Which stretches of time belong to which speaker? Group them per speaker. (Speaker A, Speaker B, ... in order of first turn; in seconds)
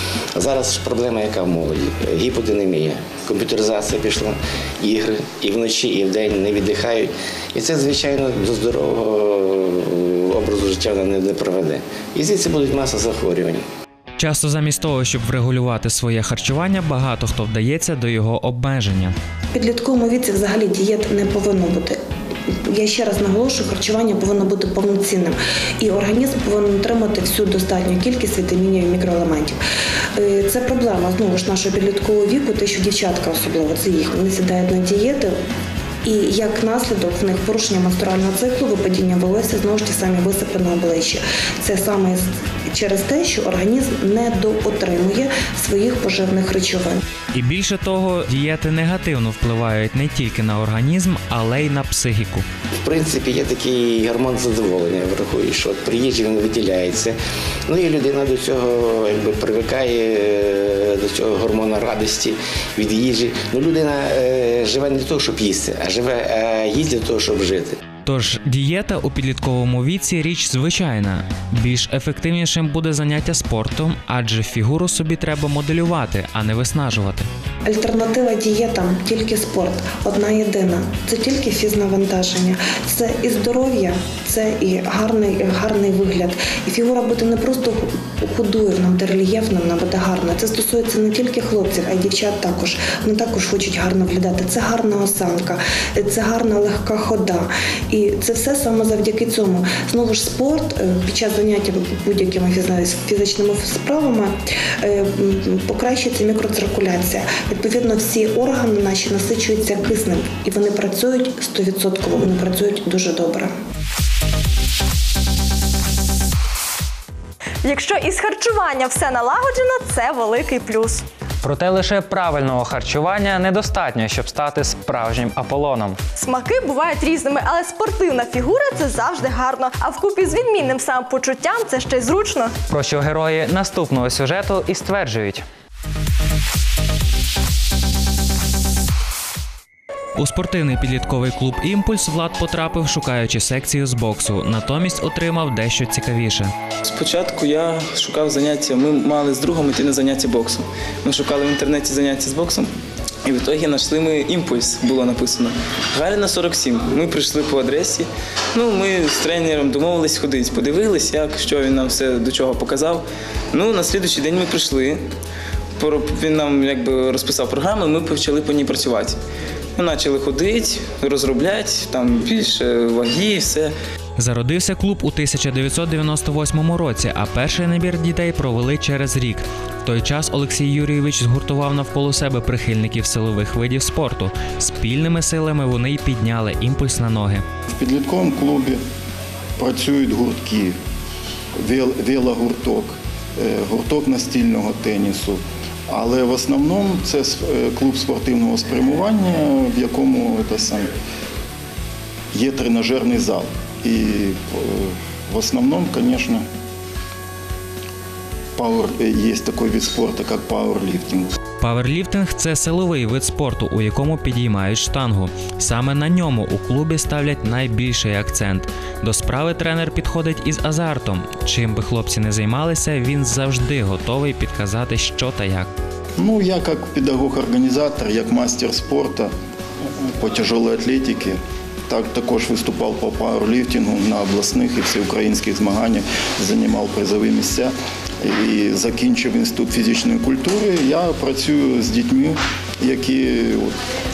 Speaker A: 0.3-13.6, 52.8-57.2, 57.7-67.8
Speaker B: 14.2-19.2, 47.3-52.5, 68.0-77.3, 140.2-146.5, 174.2-187.4, 211.6-225.7
Speaker C: 19.5-22.0, 22.5-29.6, 30.1-35.4, 36.0-47.0, 77.7-113.5
Speaker D: 117.6-121.0, 126.2-132.5
Speaker E: 121.4-126.0, 132.7-135.4
Speaker F: 146.8-152.7, 153.2-165.0, 165.8-169.2, 169.8-173.7
Speaker G: 187.7-188.8, 189.6-190.8, 191.6-200.9, 202.3-206.4, 208.6-211.3, 226.2-229.3, 230.0-243.8